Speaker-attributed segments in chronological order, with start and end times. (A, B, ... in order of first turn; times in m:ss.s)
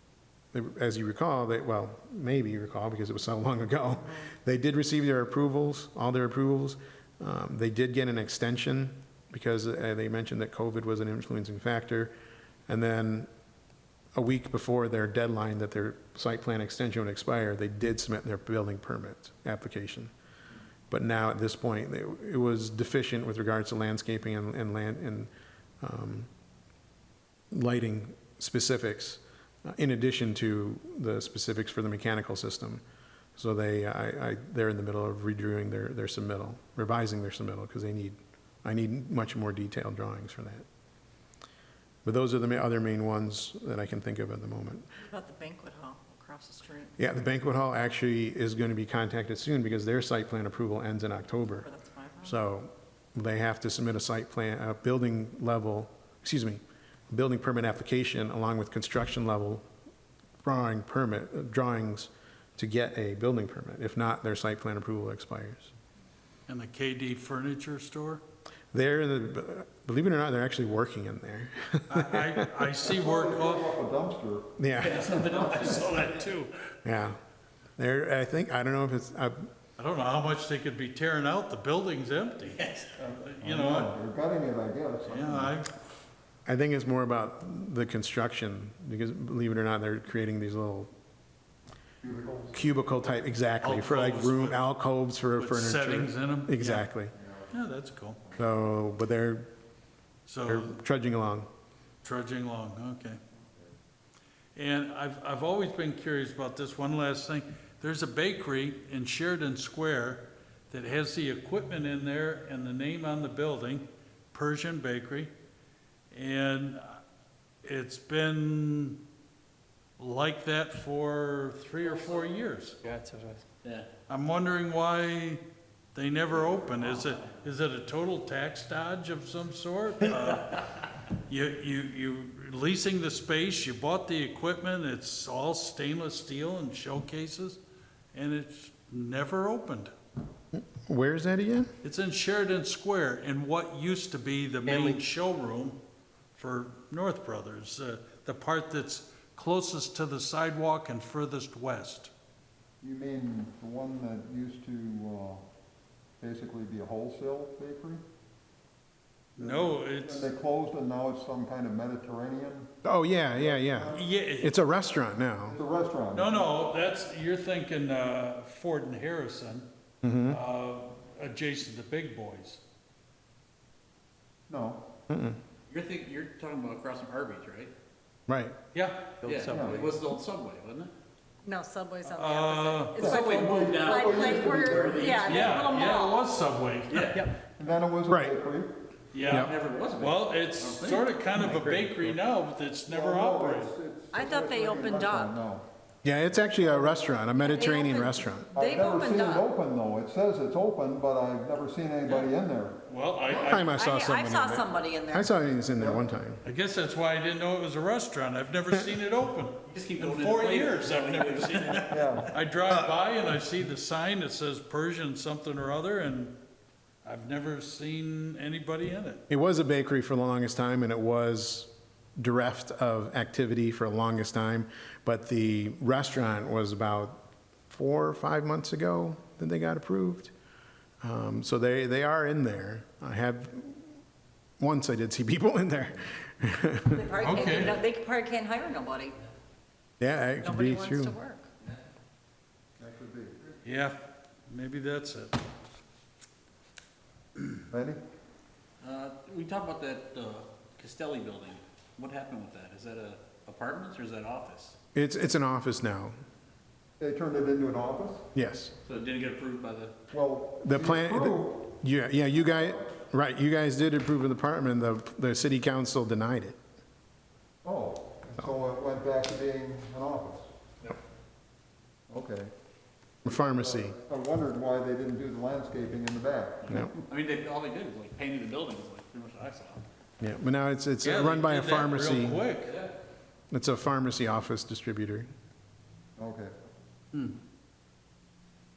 0:00.5-0:12.1 A
0:12.7-0:13.3 A
0:14.2-0:20.1 A
0:20.9-0:25.3 A
0:25.8-0:26.3 A
0:27.5-0:32.8 A
0:33.4-0:40.6 A
0:42.0-0:44.9 A
0:45.0-0:47.0 B
0:47.0-0:51.7 A
0:51.5-0:52.4 B
0:52.2-0:59.6 A
1:00.4-1:05.7 A
1:06.5-1:08.2 C
1:08.7-1:12.5 A
1:11.9-1:13.7 C
1:12.9-1:15.8 D
1:14.6-1:15.2 A
1:14.8-1:16.2 E
1:15.0-1:16.6 C
1:16.8-1:17.2 A
1:17.8-1:19.5 A
1:19.8-1:23.9 C
1:22.6-1:22.9 E
1:23.0-1:25.6 D
1:25.1-1:25.7 C
1:26.5-1:30.9 A
1:32.0-1:32.6 D
1:32.5-1:37.1 A
1:33.6-1:34.6 C
1:35.3-1:36.9 C
1:37.2-1:37.5 D
1:37.5-1:38.2 C
1:38.4-1:39.5 A
1:40.3-1:40.8 C
1:40.5-1:41.5 A
1:42.0-1:43.2 C
1:44.6-1:55.3 C
1:56.1-1:57.0 C
1:57.6-1:59.0 C
2:00.0-2:02.8 C
2:03.6-2:03.9 E
2:04.1-2:05.4 C
2:05.9-2:17.6 C
2:06.5-2:07.4 E
2:18.1-2:19.9 C
2:20.5-2:21.7 A
2:21.8-2:25.8 C
2:24.7-2:25.0 E
2:26.4-2:32.1 C
2:32.8-2:35.4 D
2:36.2-2:38.0 D
2:39.4-2:40.3 C
2:39.4-2:42.8 D
2:42.8-2:45.6 A
2:43.3-2:44.0 D
2:43.9-2:44.5 C
2:45.5-2:46.5 D
2:46.1-2:49.7 C
2:50.0-2:50.4 A
2:50.3-2:52.6 C
2:54.5-2:54.8 D
2:55.1-2:55.4 A
2:55.7-2:57.7 E
2:58.3-2:58.6 A
2:58.7-2:59.4 C
2:59.2-3:00.9 E
2:59.3-2:59.6 B
2:59.5-2:59.9 D
3:01.4-3:06.3 B
3:02.1-3:03.1 C
3:03.0-3:05.2 D
3:03.0-3:05.7 E
3:05.2-3:07.1 C
3:06.9-3:07.3 E
3:07.1-3:07.4 B
3:07.6-3:08.8 D
3:09.1-3:13.7 C
3:09.3-3:11.9 E
3:12.9-3:15.6 D
3:14.1-3:15.4 B
3:16.0-3:18.5 A
3:17.3-3:19.4 B
3:18.6-3:22.8 D
3:22.9-3:23.7 C
3:23.3-3:26.4 A
3:23.7-3:25.3 B
3:25.8-3:26.1 D
3:26.4-3:36.4 C
3:29.7-3:32.2 E
3:31.9-3:32.3 D
3:32.7-3:33.0 A
3:37.0-3:39.2 C
3:39.3-3:50.3 A
3:51.0-3:54.0 A
3:54.6-3:57.1 A
3:56.9-3:59.2 B
3:57.2-3:57.8 C
4:00.0-4:01.2 A
4:00.4-4:01.5 B
4:02.8-4:03.4 D
4:03.6-4:05.4 C
4:07.7-4:08.0 D
4:08.8-4:14.8 E
4:14.9-4:16.2 A
4:17.0-4:18.3 D
4:18.3-4:18.7 A
4:18.8-4:19.9 E
4:20.1-4:21.7 D
4:20.6-4:26.6 A
4:27.6-4:30.5 D
4:32.1-4:32.5 D
4:33.2-4:34.0 A
4:33.2-4:36.9 D
4:36.7-4:39.8 E
4:36.7-4:36.9 A
4:40.2-4:42.4 A
4:41.0-4:42.8 C
4:42.7-4:42.9 E
4:43.5-4:45.3 A
4:46.2-4:46.6 D